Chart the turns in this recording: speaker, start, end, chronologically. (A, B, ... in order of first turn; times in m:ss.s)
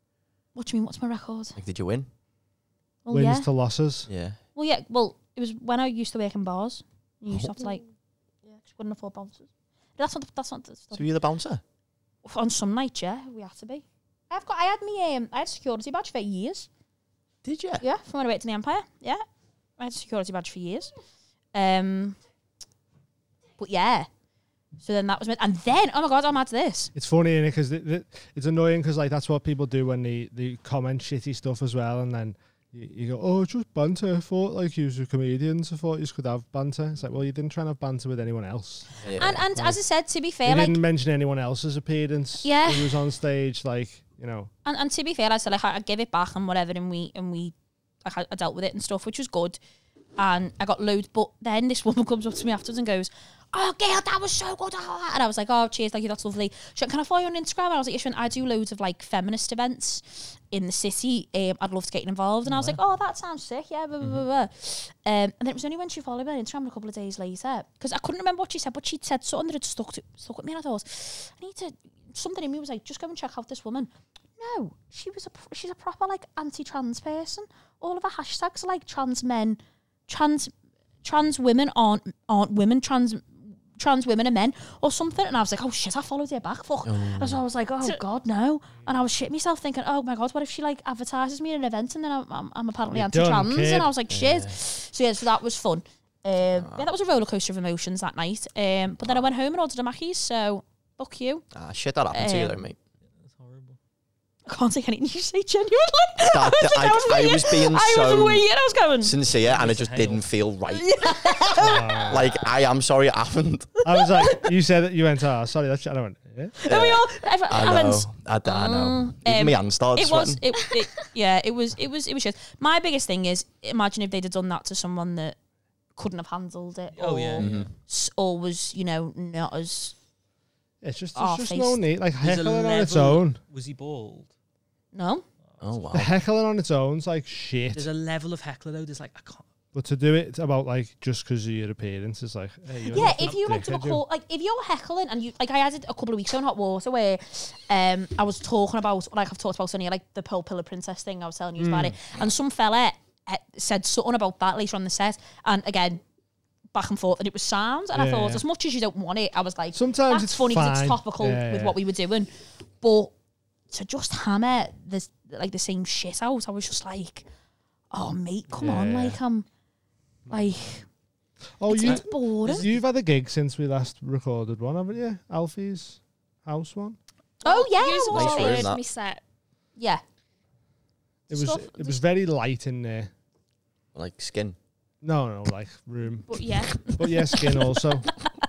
0:00.5-0:01.6 A
0:01.6-0:02.1 B
0:03.0-0:03.5 A
0:03.1-0:04.1 C
0:04.1-0:04.4 B
0:04.6-0:07.8 A
0:08.6-0:11.1 A
0:10.9-0:11.6 B
0:12.2-0:16.7 A
0:17.4-0:17.8 B
0:17.8-0:19.2 A
0:19.8-0:20.9 A
0:21.5-0:22.2 A
0:23.6-0:24.1 A
0:24.8-0:26.9 A
0:26.9-0:39.0 C
0:39.0-0:39.3 D
0:39.0-0:39.4 B
0:39.2-0:40.8 A
0:39.5-0:39.8 C
0:40.4-0:44.5 C
0:42.4-0:43.0 A
0:44.6-0:49.6 A
0:50.2-1:20.5 A
1:02.4-1:02.8 D
1:21.0-1:41.4 A
1:26.8-1:27.4 B
1:32.9-1:33.9 C
1:34.1-1:34.6 B
1:36.5-1:36.9 B
1:41.5-1:42.8 B
1:42.1-1:42.7 A
1:43.2-1:43.8 D
1:44.5-1:49.2 A
1:46.2-1:48.5 B
1:49.0-1:51.0 B
1:49.3-1:50.3 D
1:50.7-1:52.2 A
1:51.6-1:52.3 C
1:52.1-1:53.8 B
1:53.8-1:56.5 C
1:56.6-2:05.4 A
1:56.6-2:00.4 B
2:06.0-2:09.9 A
2:06.9-2:07.7 D
2:07.4-2:07.7 B
2:10.8-2:13.4 C
2:11.1-2:11.8 A
2:12.2-2:14.3 D
2:14.9-2:15.2 A
2:15.5-2:15.8 D
2:15.6-2:16.1 B
2:15.9-2:17.9 C
2:17.7-2:19.4 D
2:19.7-2:24.0 C
2:22.7-2:23.5 D
2:22.9-2:36.0 A
2:31.6-2:32.0 C
2:36.7-2:43.1 A
2:37.9-2:38.4 C
2:39.7-2:41.8 C
2:43.7-2:47.3 A
2:47.9-2:49.4 A
2:48.6-2:49.2 C
2:50.3-2:50.9 A
2:51.6-2:57.0 C
2:51.7-2:52.7 A
2:51.8-2:52.7 D
2:57.4-2:59.2 E
2:57.4-2:58.7 A
2:58.1-2:58.8 B
2:59.8-3:00.0 A
3:01.3-3:03.1 C
3:01.3-3:02.0 E
3:03.9-3:04.6 B
3:05.0-3:08.1 C
3:06.3-3:07.0 E